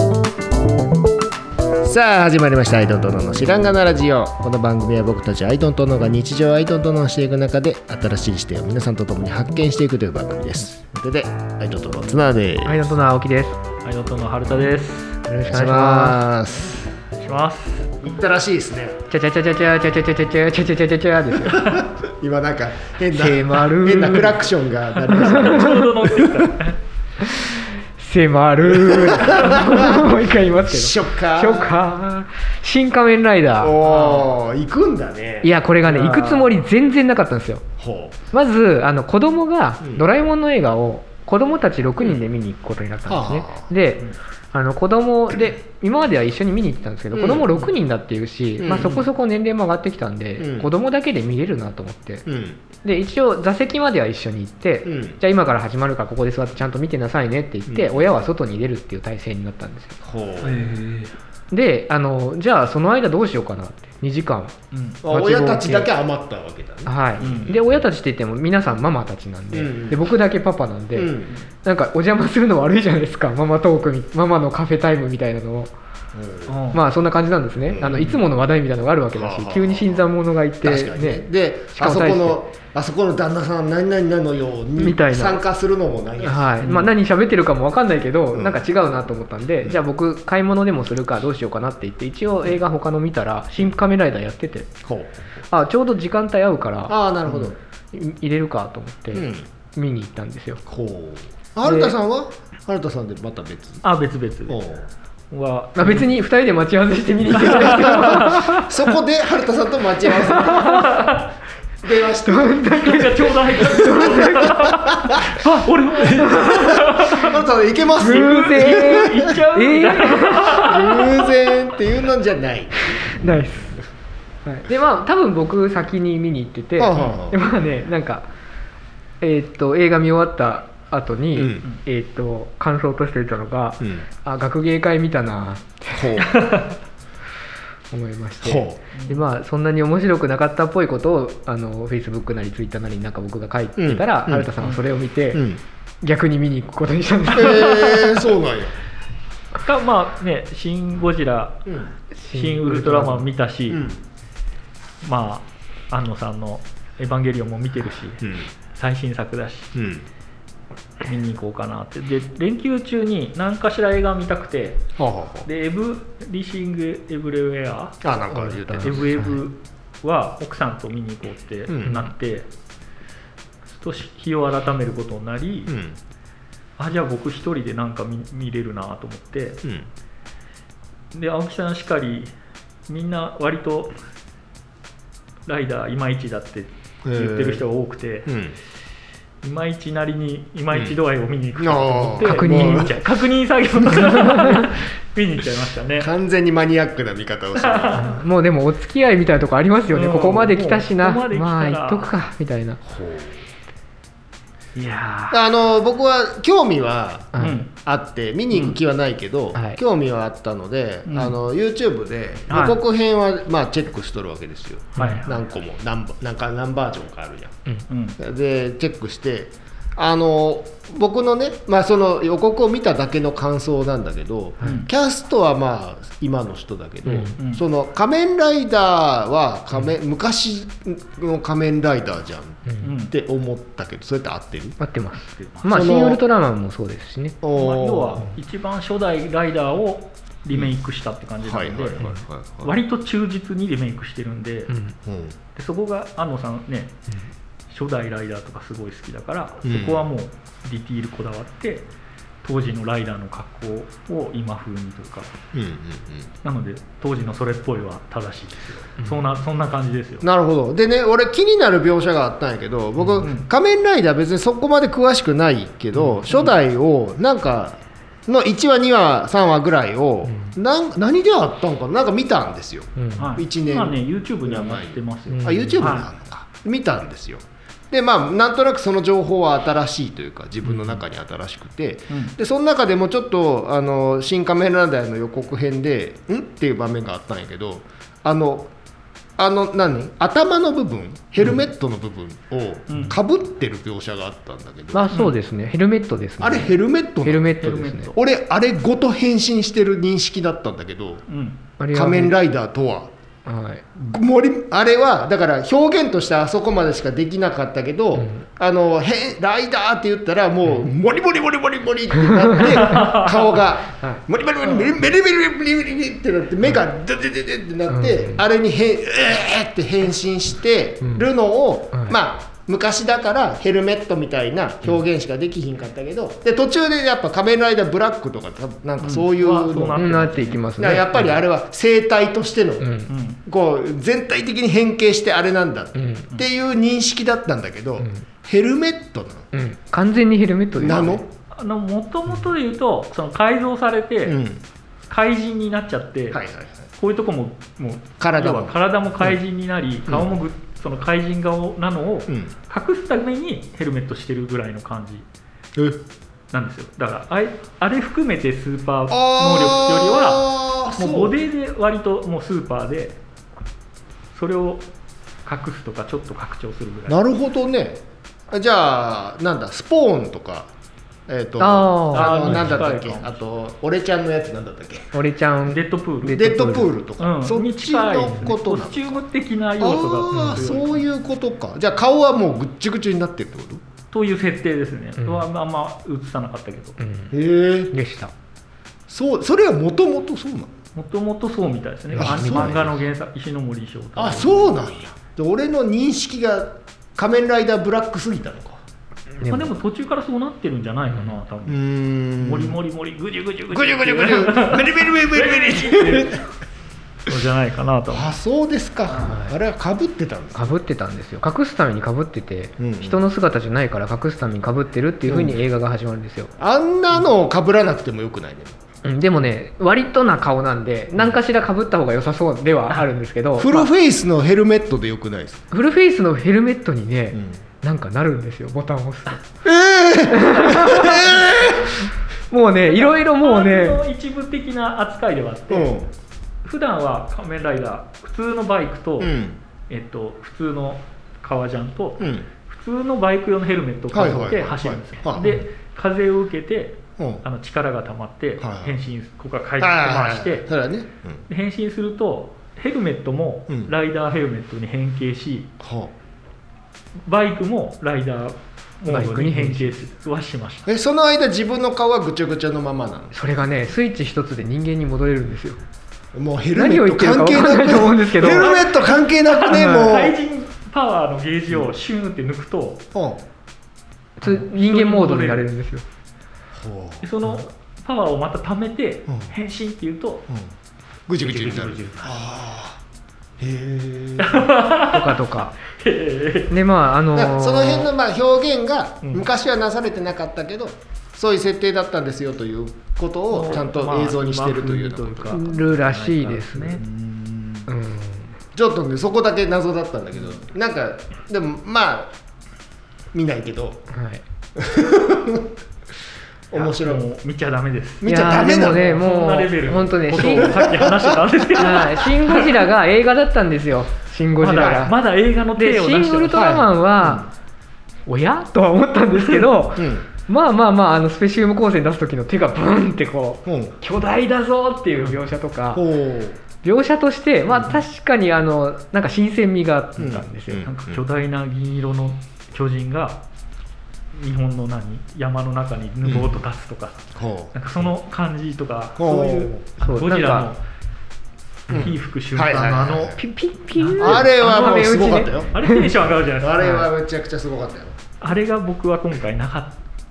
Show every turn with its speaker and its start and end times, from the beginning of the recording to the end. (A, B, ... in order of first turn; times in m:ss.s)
0:01.8-0:12.9 A
0:12.6-0:13.6 B
0:13.8-0:15.2 C
0:15.3-0:16.9 A
0:15.3-0:16.3 B
0:17.2-0:18.0 C
0:18.0-0:19.0 A
0:19.1-0:21.8 B
0:21.4-0:26.5 A
0:23.1-0:24.4 B
0:25.1-0:26.8 C
0:25.1-0:25.9 B
0:27.2-0:33.9 B
0:28.7-0:31.8 A
0:33.6-0:35.5 A
0:33.9-0:34.3 C
0:35.4-0:37.6 B
0:35.8-0:36.5 C
0:37.8-0:38.2 A
0:38.3-0:52.3 B
0:39.8-0:40.1 A
0:43.1-0:43.7 A
0:47.1-0:47.5 A
0:48.6-0:49.0 A
0:50.4-0:50.7 A
0:52.3-0:52.6 A
0:52.8-1:00.0 B
0:54.8-0:55.2 A
0:57.7-0:58.1 A
1:00.0-1:00.7 A
1:00.4-1:01.1 C
1:01.5-1:04.5 B
1:04.7-1:05.0 C
1:05.0-1:07.8 A
1:05.0-1:05.9 B
1:06.9-1:15.7 B
1:07.2-1:07.5 C
1:09.5-1:10.0 A
1:11.0-1:11.3 A
1:16.1-1:16.6 A
1:16.5-1:16.8 C
1:16.7-1:22.4 B
1:17.7-1:18.2 A
1:19.2-1:20.1 A
1:20.6-1:26.9 A
1:24.8-1:25.4 B
1:26.2-1:34.7 B
1:26.6-1:26.9 C
1:28.3-1:28.6 A
1:34.8-1:35.2 A
1:35.5-1:40.6 B
1:36.9-1:37.6 A
1:39.1-1:39.5 A
1:40.7-1:43.8 A
1:41.6-1:41.9 B
1:43.8-1:44.6 C
1:44.5-1:44.9 A
1:45.3-1:46.0 C
1:45.8-1:48.7 B
1:47.4-1:48.5 C
1:47.8-1:51.1 A
1:50.3-1:50.9 B
1:50.4-1:51.3 C
1:51.8-1:53.0 A
1:52.2-1:54.9 B
1:52.6-1:57.4 C
1:53.6-1:59.4 A
1:56.1-1:56.6 B
1:58.0-2:00.7 B
1:58.0-2:01.5 C
2:00.3-2:03.5 A
2:02.9-2:03.8 B
2:04.4-2:08.2 B
2:06.8-2:07.4 A
2:09.2-2:16.2 B
2:11.3-2:11.7 A
2:16.0-2:16.4 A
2:16.2-2:16.8 C
2:17.9-2:25.5 B
2:18.4-2:18.8 A
2:18.9-2:19.2 C
2:23.8-2:24.5 A
2:25.3-2:25.6 A
2:26.0-2:28.2 B
2:27.3-2:28.8 A
2:29.6-2:31.8 C
2:32.2-2:33.3 B
2:32.3-2:33.8 C
2:33.7-2:34.0 A
2:35.0-2:39.7 C
2:38.2-2:38.5 A
2:39.8-2:40.1 A
2:41.0-2:44.8 C
2:45.0-2:45.5 A
2:45.4-2:48.1 C
2:48.0-2:49.1 A
2:48.3-2:49.4 B
2:48.8-2:52.5 C
2:51.7-2:52.1 A
2:53.7-2:55.7 C
2:55.7-2:56.0 A
2:56.8-2:59.6 C
3:01.1-3:02.3 C
3:02.9-3:03.9 C
3:05.5-3:08.4 C
3:07.0-3:07.6 A
3:08.3-3:08.6 A
3:09.4-3:16.1 C
3:10.7-3:11.0 A
3:11.6-3:13.0 A
3:12.2-3:12.9 B
3:14.1-3:14.7 B
3:16.0-3:18.2 A
3:17.6-3:18.2 C
3:18.2-3:22.8 B
3:19.9-3:22.1 C
3:22.8-3:23.4 A
3:24.8-3:25.4 C
3:25.3-3:37.6 A
3:27.3-3:27.6 B
3:27.4-3:27.7 C
3:31.1-3:31.4 C
3:32.5-3:32.8 C
3:35.0-3:35.2 B
3:35.0-3:35.4 C
3:37.9-3:38.2 C
3:38.2-3:54.8 A
3:44.6-3:44.9 C
3:47.1-3:47.4 B
3:47.4-3:47.6 C
3:52.8-3:53.1 C
3:54.8-3:57.4 B
3:55.4-3:55.6 C
3:55.7-3:56.2 A
3:57.4-3:58.3 A
3:57.5-4:04.7 C
4:01.4-4:02.8 A
4:04.7-4:05.0 B
4:05.1-4:05.4 A
4:05.6-4:07.0 C
4:07.7-4:11.9 C
4:09.6-4:10.1 A
4:12.4-4:15.3 C
4:15.5-4:16.3 A
4:16.4-4:20.3 C
4:20.2-4:48.7 A
4:23.2-4:23.5 C
4:33.0-4:33.2 B
4:33.2-4:36.1 C
4:35.3-4:36.0 B
4:49.4-4:55.1 A
4:52.9-4:53.2 C
4:54.9-4:56.7 B
4:56.4-4:57.6 A
4:57.2-4:58.1 B
4:57.6-4:58.2 C
4:58.1-5:01.2 A
5:01.3-5:01.6 C
5:01.8-5:02.4 B
5:01.9-5:03.1 A
5:03.5-5:03.8 B
5:04.0-5:32.9 A
5:08.2-5:08.4 B
5:12.3-5:12.9 B
5:12.7-5:13.4 C
5:17.9-5:18.4 B
5:29.0-5:30.6 C
5:30.0-5:31.3 B
5:32.8-5:33.1 B
5:33.1-5:33.4 C
5:33.4-5:39.5 A
5:36.0-5:36.3 B
5:39.5-5:41.2 B
5:40.8-5:41.2 A
5:41.5-5:44.4 C
5:44.3-5:44.6 A
5:45.1-5:46.4 C
5:46.3-5:46.9 A
5:47.0-5:55.3 C
5:48.2-5:49.4 A
5:55.8-5:56.0 A
5:56.5-6:03.2 C
5:59.1-6:01.4 A
6:04.3-6:04.8 C
6:05.4-6:07.2 C
6:07.1-6:10.7 A
6:11.3-6:15.2 A
6:11.6-6:12.7 B
6:12.1-6:13.4 C
6:15.1-6:16.9 B
6:15.7-6:16.6 C
6:16.3-6:19.2 A
6:17.2-6:21.0 C
6:19.8-6:23.8 A
6:20.3-6:20.7 B
6:24.1-6:27.0 C
6:25.2-6:25.4 B
6:27.0-6:27.3 B
6:27.3-6:27.9 A
6:27.9-6:28.3 B
6:29.1-6:30.7 A
6:31.0-6:34.7 C
6:32.1-6:32.8 B
6:32.2-6:33.0 A
6:34.2-6:38.8 A
6:39.4-6:39.7 B
6:39.5-6:46.4 C
6:41.7-6:42.8 A
6:43.7-6:46.4 A
6:47.3-6:48.4 C
6:48.1-6:50.7 A
6:49.2-6:49.5 B
6:50.6-6:56.5 B
6:52.8-6:53.2 A
6:55.3-6:55.6 A
6:56.6-6:58.8 A
6:59.0-7:03.9 B
7:03.6-7:05.6 A
7:05.7-7:09.4 B
7:09.6-7:12.0 A
7:10.3-7:14.0 B
7:12.8-7:16.0 C
7:15.7-7:16.1 A
7:16.6-7:19.4 C
7:19.2-7:19.6 A
7:19.9-7:30.7 C
7:22.2-7:22.5 A
7:24.1-7:25.6 A
7:27.2-7:27.4 A
7:28.6-7:29.0 A
7:29.8-7:31.4 A
7:31.5-7:35.7 C
7:35.8-7:36.1 A
7:37.3-7:40.9 C
7:39.1-7:40.1 B
7:40.9-7:43.4 A
7:43.3-7:45.8 B
7:46.3-7:50.4 A
7:46.8-7:48.8 B
7:48.4-7:53.0 C
7:49.7-7:50.1 B
7:53.1-7:53.4 A
7:54.4-7:56.0 B
7:54.4-7:55.7 C
7:56.8-7:57.6 A
7:57.2-8:00.5 C
8:01.3-8:03.0 A
8:01.4-8:02.4 C
8:03.6-8:04.7 A
8:04.4-8:06.7 C
8:05.1-8:05.8 B
8:06.7-8:08.1 B
8:07.3-8:15.6 A
8:13.5-8:17.8 C
8:15.5-8:17.0 B
8:17.9-8:18.5 B
8:18.8-8:22.3 A
8:23.3-8:24.0 A
8:24.1-8:24.4 B
8:24.8-8:25.8 A
8:26.7-8:27.2 A
8:26.7-8:32.9 C
8:28.2-8:29.2 A
8:28.2-8:30.8 B
8:30.4-8:31.6 A
8:31.8-8:35.2 B
8:34.6-8:36.8 C
8:35.8-8:37.5 B
8:36.5-8:37.5 A
8:38.3-8:46.1 B
8:39.4-8:39.7 C
8:40.0-8:40.3 A
8:43.7-8:43.9 A
8:45.9-8:46.6 A
8:46.8-8:50.9 B
8:50.2-8:51.2 A
8:50.8-8:53.4 C
8:54.3-9:00.8 C
8:56.2-8:56.6 A
8:57.4-8:58.1 A
8:59.2-8:59.8 A
9:00.0-9:00.7 B
9:01.9-9:03.4 C
9:01.9-9:03.4 A
9:03.4-9:06.1 B
9:04.0-9:04.5 C
9:04.2-9:05.8 A
9:05.7-9:06.9 C
9:06.3-9:08.2 A
9:06.8-9:07.1 B
9:08.4-9:10.0 C